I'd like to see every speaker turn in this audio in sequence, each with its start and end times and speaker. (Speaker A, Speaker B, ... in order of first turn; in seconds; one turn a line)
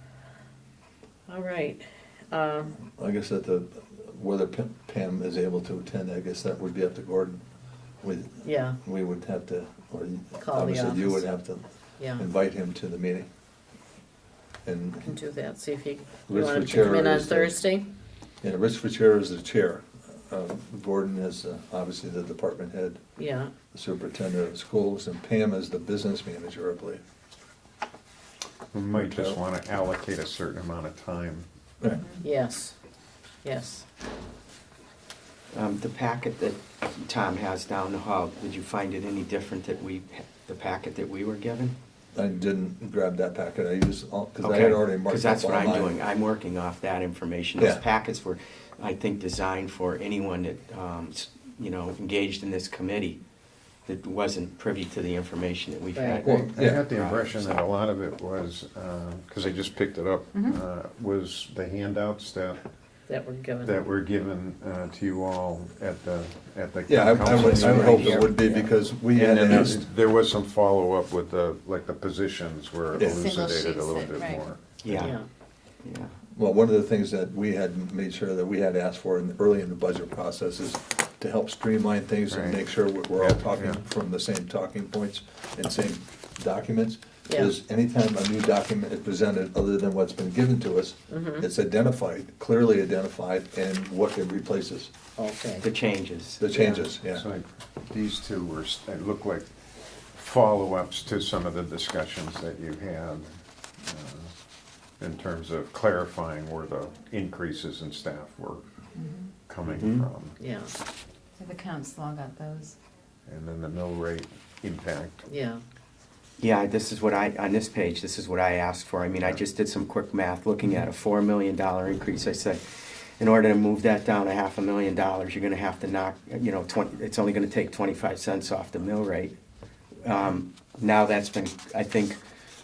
Speaker A: 1.3-2.8
Speaker B: 2.8-7.4
Speaker B: 8.0-13.3
Speaker A: 8.4-8.8
Speaker A: 10.4-11.3
Speaker A: 12.0-12.2
Speaker B: 14.6-15.2
Speaker A: 15.1-17.9
Speaker B: 16.3-17.5
Speaker B: 18.4-23.0
Speaker A: 23.2-23.5
Speaker B: 23.7-27.0
Speaker C: 28.7-31.5
Speaker B: 28.9-29.4
Speaker A: 32.2-32.7
Speaker A: 33.4-33.9
Speaker D: 35.5-41.7
Speaker B: 42.1-46.0
Speaker D: 44.4-53.2
Speaker B: 47.6-47.8
Speaker D: 53.9-57.6
Speaker A: 55.9-56.2
Speaker B: 56.2-56.8
Speaker C: 56.2-62.6
Speaker A: 63.1-63.8
Speaker C: 63.6-75.1
Speaker B: 66.9-69.8
Speaker D: 67.3-68.6
Speaker B: 72.9-73.3
Speaker E: 73.0-74.5
Speaker D: 74.8-75.2
Speaker A: 74.9-75.2
Speaker D: 75.8-76.1
Speaker B: 76.3-94.9
Speaker C: 82.3-82.6
Speaker C: 83.2-83.8
Speaker A: 87.2-87.5
Speaker A: 91.1-91.5
Speaker A: 95.2-95.7
Speaker D: 95.6-96.5
Speaker B: 96.4-97.2
Speaker A: 96.5-96.9
Speaker C: 97.1-99.5
Speaker C: 100.1-103.3
Speaker C: 103.8-104.3
Speaker C: 105.0-108.6
Speaker E: 109.0-109.3
Speaker C: 109.4-110.3
Speaker D: 109.6-110.1
Speaker A: 110.4-110.7
Speaker E: 111.4-112.8
Speaker C: 113.2-115.2
Speaker A: 115.2-115.6
Speaker D: 116.4-122.6
Speaker D: 123.2-129.3
Speaker D: 130.0-132.2